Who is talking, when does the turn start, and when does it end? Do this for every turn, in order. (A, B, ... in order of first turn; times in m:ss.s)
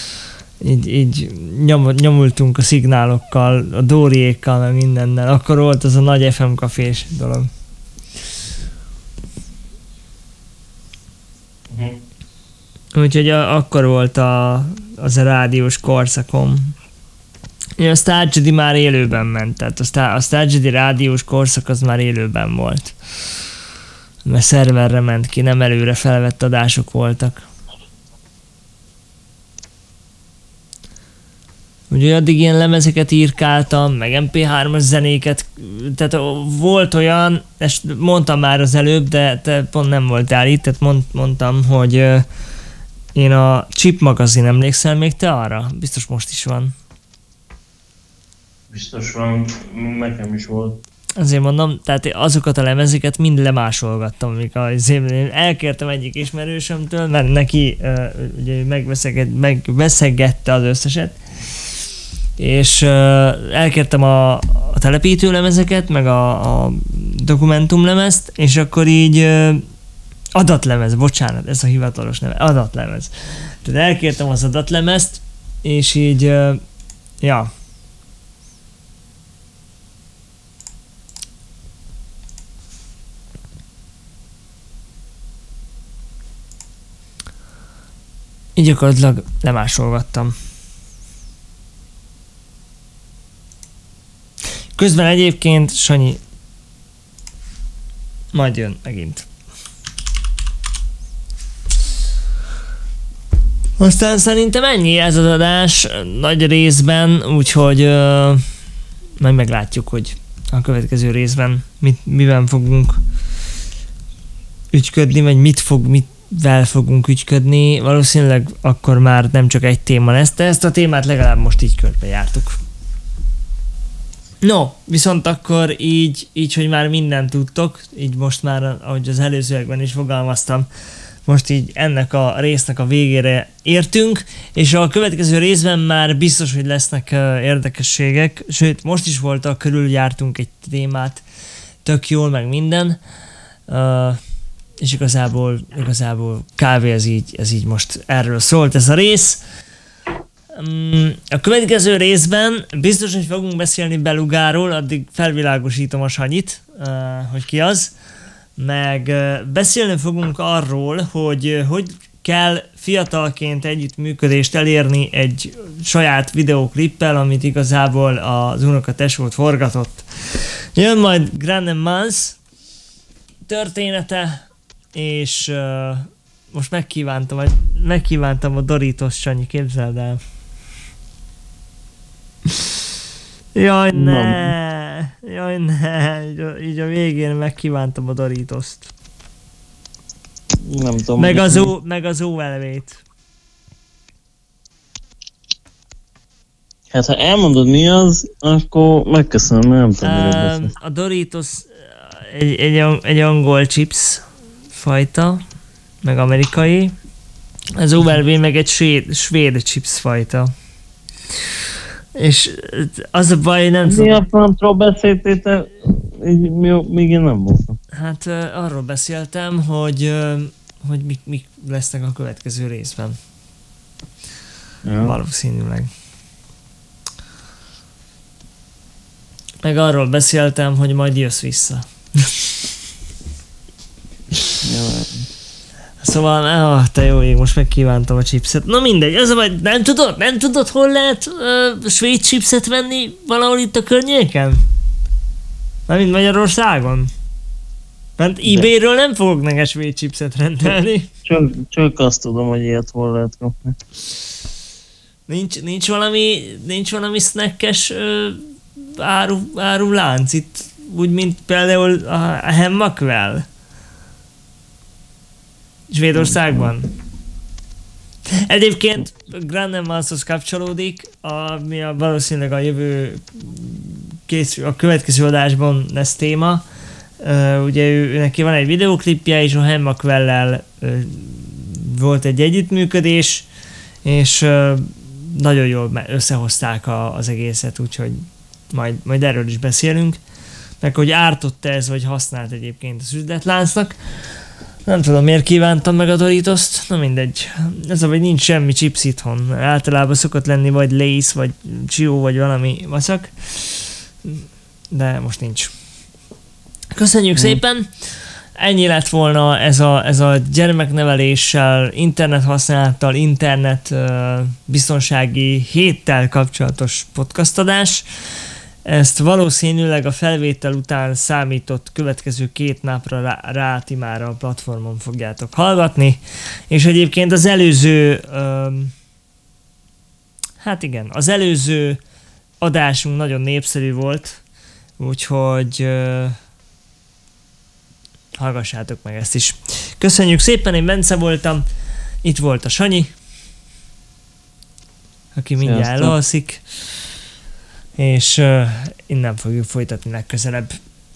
0:00.6-0:07.5 A
0:11.7-0:12.0 B
0:12.9-0:16.7 A
0:17.8-0:23.0 A
0:24.2-0:27.4 A
0:31.9-0:42.2 A
0:43.1-0:46.7 A
0:48.7-0:50.8 B
0:51.2-1:01.2 A
1:02.4-1:09.6 A
1:10.3-1:16.6 A
1:17.2-1:17.5 A
1:28.6-1:30.3 A
1:34.7-1:36.2 A
1:38.3-1:39.3 A
1:43.8-1:48.4 A
1:49.2-1:53.0 A
1:54.7-2:02.6 A
2:04.4-2:10.7 A
2:11.2-2:21.2 A
2:21.8-2:23.0 A
2:23.7-2:24.2 A
2:24.8-2:29.4 A
2:30.5-2:37.9 A
2:38.6-2:52.4 A
2:53.5-3:00.2 A
3:03.5-3:08.9 A
3:03.9-3:04.5 B
3:10.6-3:11.7 B
3:11.2-3:13.0 A
3:16.9-3:20.7 B
3:20.0-3:25.4 A
3:26.0-3:26.9 A
3:27.8-3:30.5 A
3:32.1-3:34.2 A
3:33.8-3:37.7 B
3:37.9-3:43.2 A
3:44.8-3:45.1 B
3:45.0-3:45.9 A
3:49.6-3:52.7 A
3:54.6-3:55.3 B
3:56.0-4:04.6 A
4:05.9-4:07.1 A
4:08.2-4:11.1 A
4:11.2-4:13.7 B
4:15.3-4:23.4 A
4:25.9-4:26.9 A
4:28.3-4:36.6 A
4:37.2-4:43.5 A
4:44.0-4:50.2 A
4:50.8-4:54.0 A
4:54.8-5:05.7 A
5:06.9-5:18.1 A
5:18.8-5:28.9 A
5:30.6-5:32.0 A
5:32.6-5:34.4 A
5:35.0-5:36.4 A
5:38.4-5:41.6 A
5:42.2-5:43.1 A
5:45.3-5:46.8 A
5:45.6-5:46.1 B
5:48.0-5:50.8 A